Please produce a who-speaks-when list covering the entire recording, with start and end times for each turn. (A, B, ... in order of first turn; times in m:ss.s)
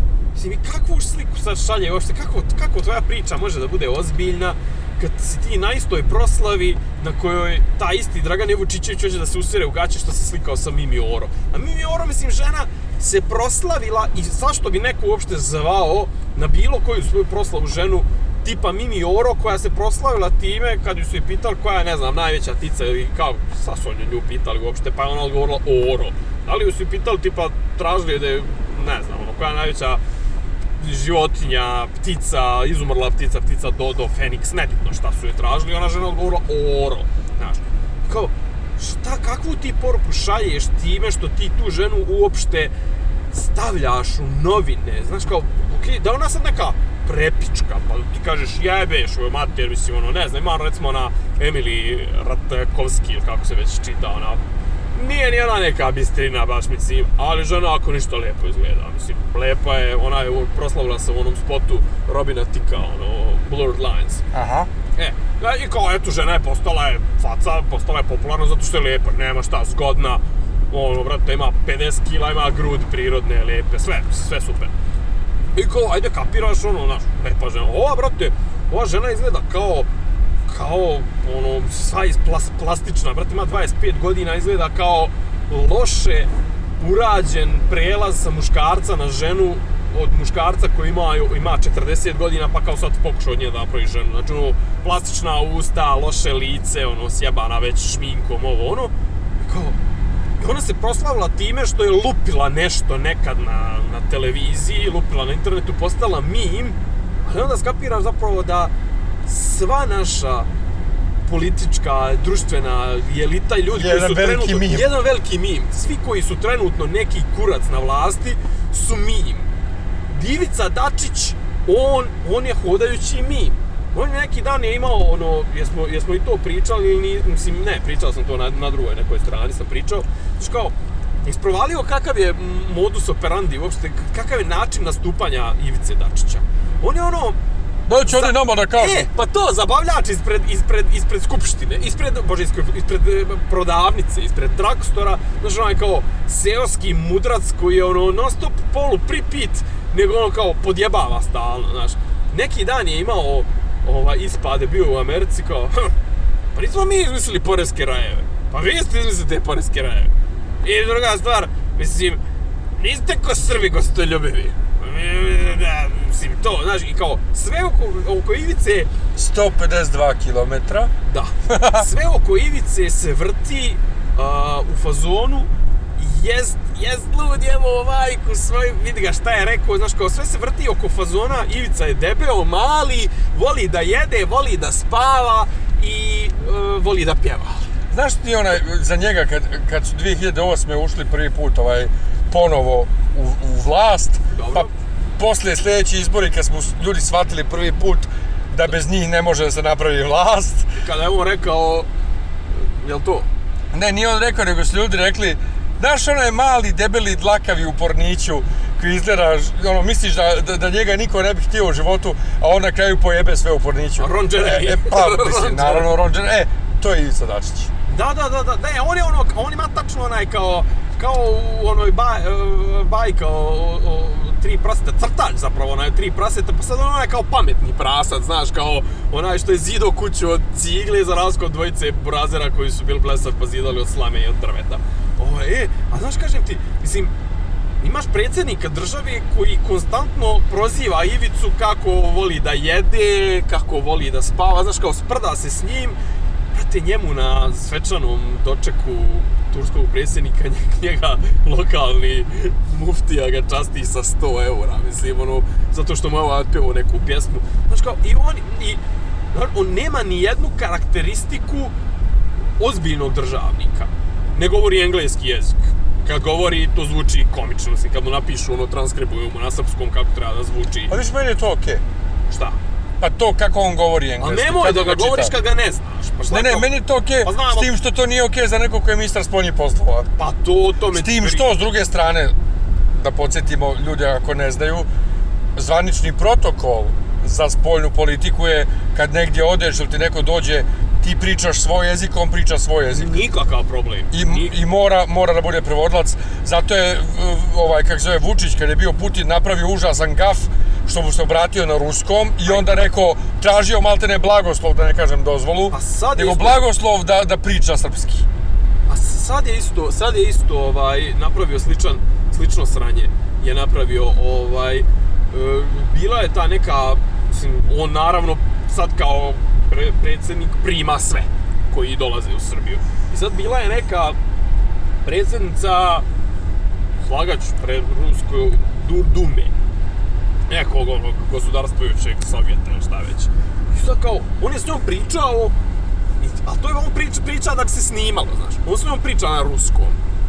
0:00.3-0:30.0 A
0:30.8-0:42.7 A
0:43.3-0:54.4 A
0:54.9-1:04.2 A
1:04.3-1:04.7 B
1:05.0-1:14.7 A
1:15.5-1:19.9 A
1:20.5-1:39.8 A
1:40.4-1:48.7 A
1:49.2-1:50.5 A
1:51.2-1:59.5 A
1:53.7-1:54.9 B
2:00.1-2:17.4 A
2:17.9-2:19.1 B
2:18.0-2:35.9 A
2:36.5-2:40.1 A
2:40.6-2:42.2 A
2:42.8-2:48.9 A
2:49.1-2:50.9 B
2:51.1-3:07.6 A
2:51.5-2:51.9 B
3:07.9-3:20.7 B
3:14.3-3:14.7 A
3:20.8-3:21.9 A
3:22.5-3:23.3 A
3:23.7-3:37.7 B
3:34.0-3:35.9 A
3:37.8-3:57.1 A
3:57.8-4:06.0 A
4:06.5-4:18.8 A
4:19.3-4:21.7 A
4:22.6-4:30.9 A
4:30.9-4:31.8 B
4:32.3-4:32.6 A
4:33.0-4:35.3 B
4:34.2-4:36.7 A
4:36.3-4:40.1 B
4:37.2-4:37.7 A
4:40.2-4:41.5 A
4:40.9-4:42.3 B
4:42.9-4:44.9 B
4:45.6-4:53.1 B
4:52.9-4:54.5 A
4:54.1-5:08.3 B
5:05.7-5:06.6 A
5:08.9-5:24.2 A
5:25.0-5:26.0 A
5:27.0-5:29.5 A
5:30.5-5:35.5 A
5:36.2-5:40.0 A